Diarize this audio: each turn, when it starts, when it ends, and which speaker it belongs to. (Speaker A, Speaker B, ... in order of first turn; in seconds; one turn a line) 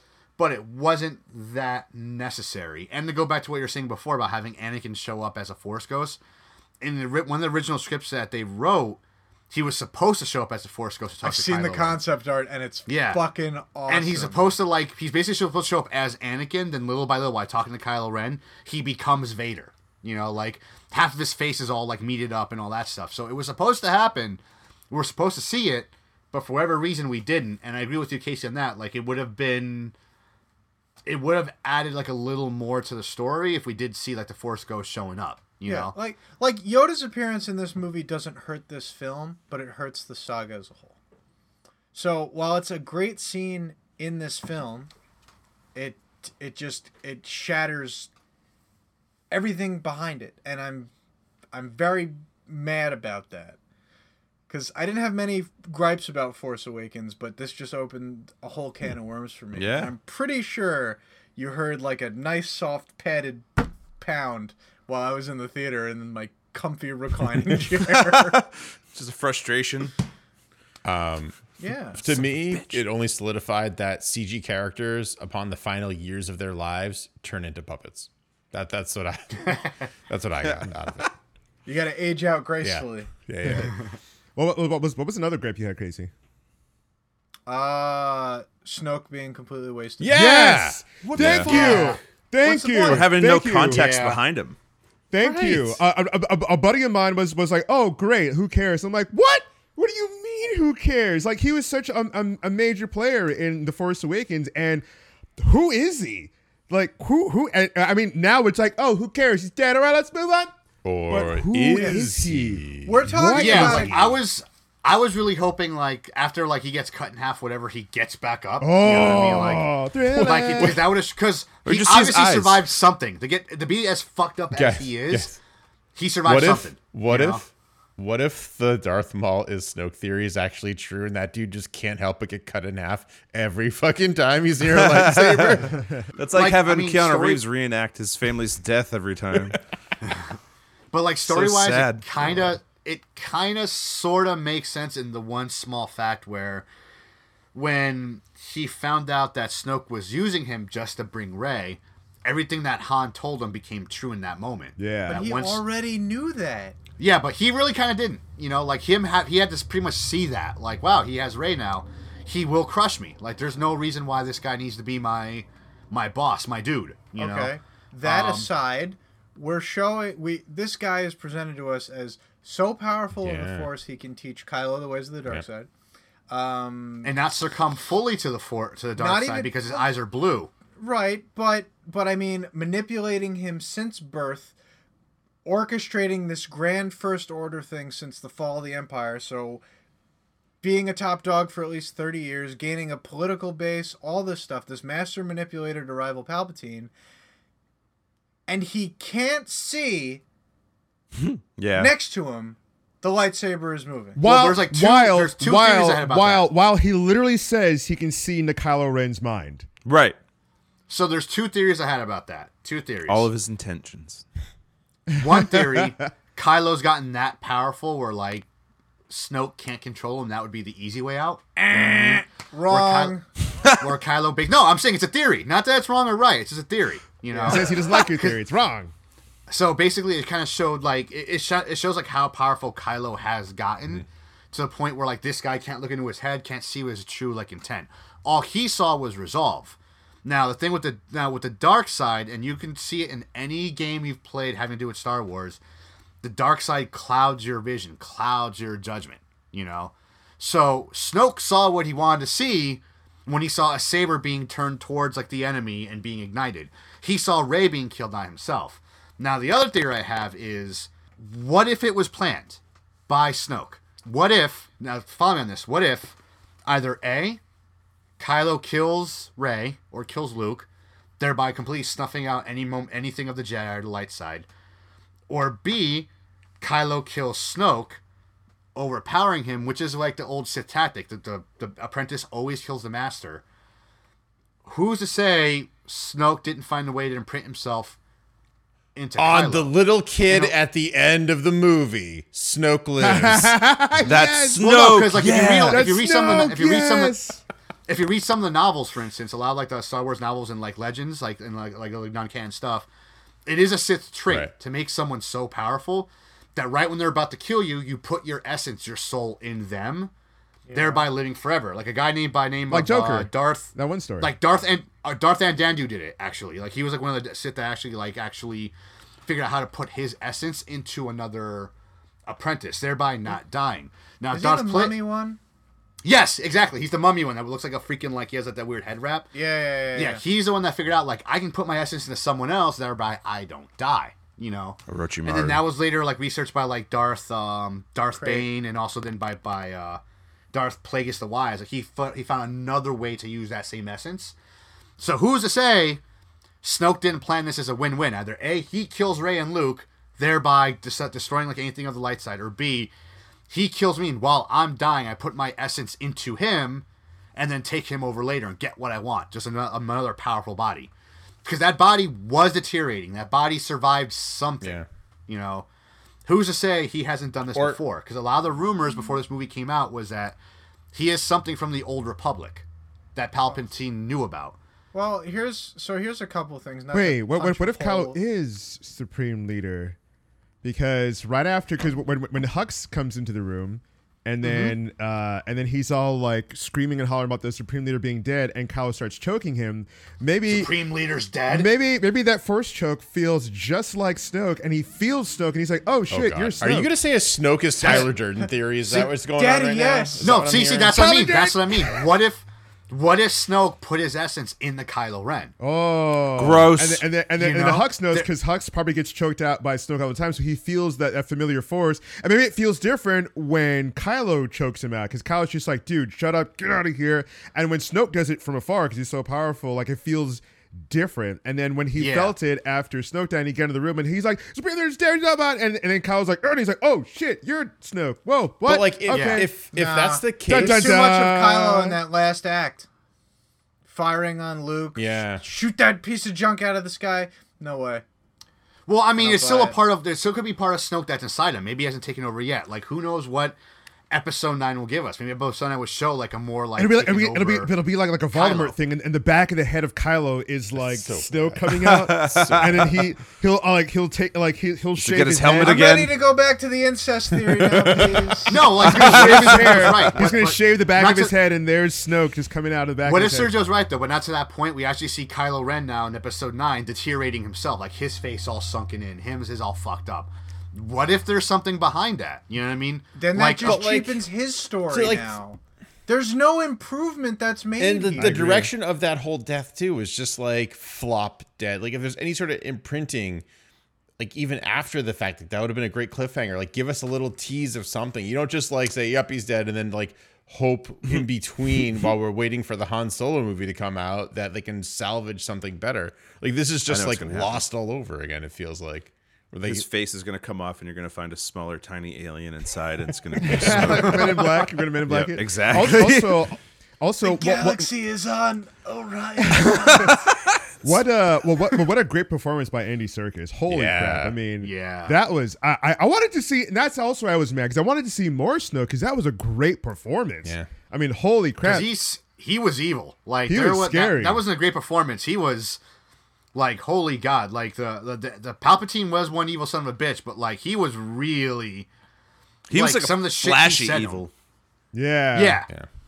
Speaker A: 0.4-6.2
Speaker A: 6.8-12.0
Speaker B: 11.2-14.4
Speaker A: 12.9-13.2
Speaker A: 13.9-29.9
Speaker A: 31.1-36.0
Speaker B: 35.6-41.0
Speaker B: 41.9-44.9
Speaker B: 45.8-48.1
Speaker B: 49.3-50.9
Speaker B: 51.5-53.6
Speaker B: 54.5-68.4
Speaker C: 59.5-59.9
Speaker C: 67.9-69.9
Speaker D: 70.8-81.1
Speaker B: 71.6-72.0
Speaker C: 80.4-80.7
Speaker B: 81.7-83.1
Speaker D: 82.6-83.8
Speaker E: 83.4-83.7
Speaker E: 84.4-86.1
Speaker B: 87.5-90.4
Speaker D: 90.0-90.8
Speaker E: 90.1-93.8
Speaker C: 91.0-91.9
Speaker A: 91.2-92.0
Speaker B: 91.3-93.1
Speaker C: 92.7-94.6
Speaker A: 93.7-94.2
Speaker E: 95.1-104.8
Speaker D: 95.2-95.8
Speaker E: 105.4-110.5
Speaker D: 110.8-113.0
Speaker E: 111.1-114.2
Speaker B: 112.8-114.0
Speaker A: 113.4-125.3
Speaker E: 118.6-120.8
Speaker D: 118.9-119.6
Speaker D: 120.1-120.9
Speaker C: 121.7-122.6
Speaker D: 124.5-125.4
Speaker A: 126.0-127.5
Speaker D: 126.2-135.7
Speaker C: 134.7-139.6
Speaker A: 135.0-137.4
Speaker E: 135.8-136.1
Speaker A: 140.1-140.3
Speaker A: 140.9-146.7
Speaker C: 141.2-142.4
Speaker A: 147.5-155.6
Speaker E: 154.8-155.3
Speaker B: 155.1-156.8
Speaker A: 157.0-168.5
Speaker B: 167.2-175.7
Speaker D: 173.2-173.7
Speaker B: 176.3-177.1
Speaker A: 177.0-180.5
Speaker B: 179.0-179.6
Speaker B: 180.8-184.5
Speaker B: 185.4-189.6
Speaker B: 190.6-196.9
Speaker B: 198.5-200.2
Speaker C: 201.2-201.9
Speaker B: 201.8-204.2
Speaker E: 204.2-209.7
Speaker A: 204.2-206.5
Speaker C: 209.8-210.2
Speaker A: 210.9-213.3
Speaker C: 213.1-214.2
Speaker A: 215.2-218.5
Speaker E: 215.2-215.9
Speaker A: 219.1-223.2
Speaker B: 221.6-223.3
Speaker C: 223.5-223.9
Speaker A: 223.8-228.4
Speaker B: 227.3-227.7
Speaker E: 227.4-228.9
Speaker A: 229.5-245.6
Speaker A: 246.2-267.4
Speaker A: 268.2-270.7
Speaker A: 271.2-274.5
Speaker A: 275.3-276.1
Speaker A: 276.6-278.0
Speaker A: 278.8-283.4
Speaker A: 284.6-288.0
Speaker A: 288.9-289.7
Speaker D: 289.2-293.5
Speaker A: 290.3-290.6
Speaker E: 293.0-294.7
Speaker C: 294.0-296.0
Speaker A: 294.6-297.1
Speaker E: 295.2-297.4
Speaker A: 297.9-302.9
Speaker A: 303.5-310.1
Speaker B: 310.7-311.1
Speaker A: 310.7-318.7
Speaker E: 312.7-314.3
Speaker A: 319.2-321.7
Speaker A: 322.3-325.0
Speaker B: 324.3-325.4
Speaker A: 326.0-329.3
Speaker B: 329.3-330.2
Speaker A: 329.9-340.0
Speaker C: 334.9-335.6
Speaker B: 338.1-338.5
Speaker A: 340.5-344.4
Speaker A: 345.0-346.0
Speaker A: 346.6-352.9
Speaker A: 353.5-356.9
Speaker A: 357.4-360.9
Speaker A: 361.4-365.7
Speaker D: 364.6-364.9
Speaker A: 366.3-370.4
Speaker D: 367.5-367.8
Speaker A: 370.9-374.6
Speaker B: 374.9-378.2
Speaker E: 376.9-380.0
Speaker E: 380.6-390.7
Speaker A: 384.4-384.8
Speaker A: 390.5-391.7
Speaker E: 391.5-396.9
Speaker D: 396.1-401.1
Speaker A: 397.8-398.1
Speaker B: 399.0-400.3
Speaker A: 400.2-405.5
Speaker E: 400.8-402.1
Speaker E: 405.6-429.5
Speaker C: 406.4-407.1
Speaker A: 407.4-408.3
Speaker A: 421.9-422.3
Speaker D: 428.6-430.9
Speaker A: 429.1-429.5
Speaker B: 429.7-432.9
Speaker E: 430.5-432.0
Speaker B: 433.9-438.0
Speaker D: 435.0-435.4
Speaker A: 438.9-443.6
Speaker B: 439.2-439.8
Speaker A: 444.1-447.7
Speaker E: 446.8-455.8
Speaker A: 448.3-448.7
Speaker D: 450.8-451.6
Speaker C: 451.7-453.0
Speaker C: 455.0-456.2
Speaker B: 455.6-458.7
Speaker D: 457.6-458.3
Speaker A: 458.5-461.3
Speaker C: 458.8-460.2
Speaker E: 458.8-463.6
Speaker A: 463.1-473.8
Speaker B: 473.1-478.4
Speaker D: 473.6-474.2
Speaker D: 474.9-475.4
Speaker D: 477.8-483.4
Speaker E: 478.2-478.7
Speaker D: 484.2-499.9
Speaker C: 496.9-497.6
Speaker C: 499.7-504.5
Speaker E: 503.4-507.9
Speaker A: 503.6-504.4
Speaker C: 505.1-506.5
Speaker B: 507.2-510.2
Speaker E: 509.4-509.7
Speaker C: 509.9-510.6
Speaker E: 510.8-521.9
Speaker D: 513.7-514.4
Speaker A: 514.6-515.2
Speaker A: 521.6-525.8
Speaker E: 523.5-524.4
Speaker A: 526.5-531.9
Speaker C: 532.7-534.3
Speaker A: 532.8-534.2
Speaker E: 534.9-535.6
Speaker A: 535.3-535.7